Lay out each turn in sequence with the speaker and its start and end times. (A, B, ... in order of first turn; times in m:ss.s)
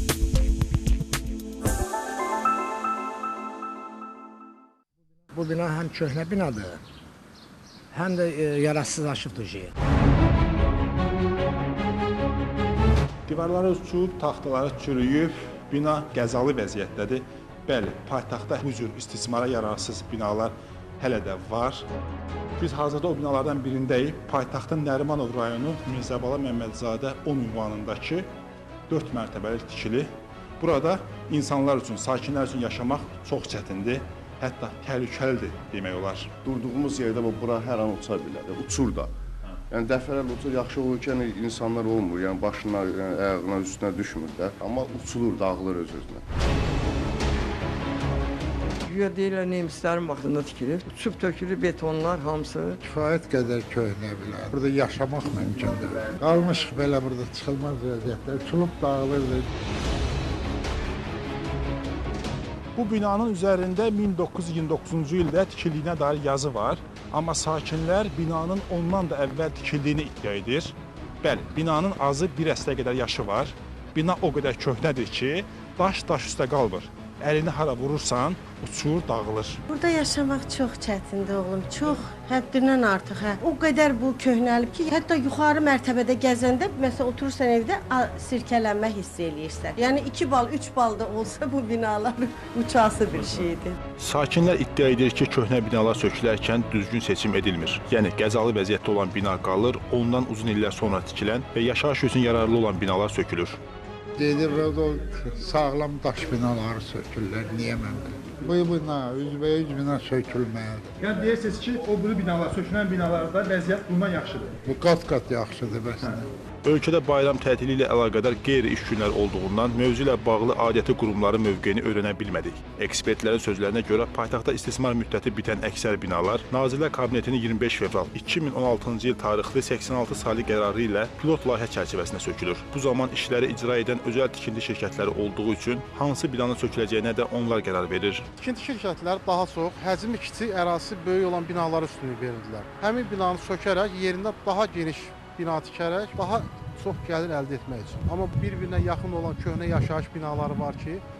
0:05.3-0:06.8 A
0:07.9-0:09.7 A
0:13.2-0:21.8 B
0:22.6-0:28.3 B
0:28.9-0:30.1 B
0:30.6-0:36.3 B
0:36.4-0:39.1 C
0:39.7-0:46.2 C
0:48.8-0:52.8 D
0:52.8-0:59.5 E
1:02.8-1:19.6 B
1:19.7-1:33.8 F
1:34.0-1:43.6 B
1:44.2-1:50.9 E
1:51.0-1:54.6 B
1:54.6-1:56.2 E
1:56.6-2:18.3 B
2:18.4-2:31.0 G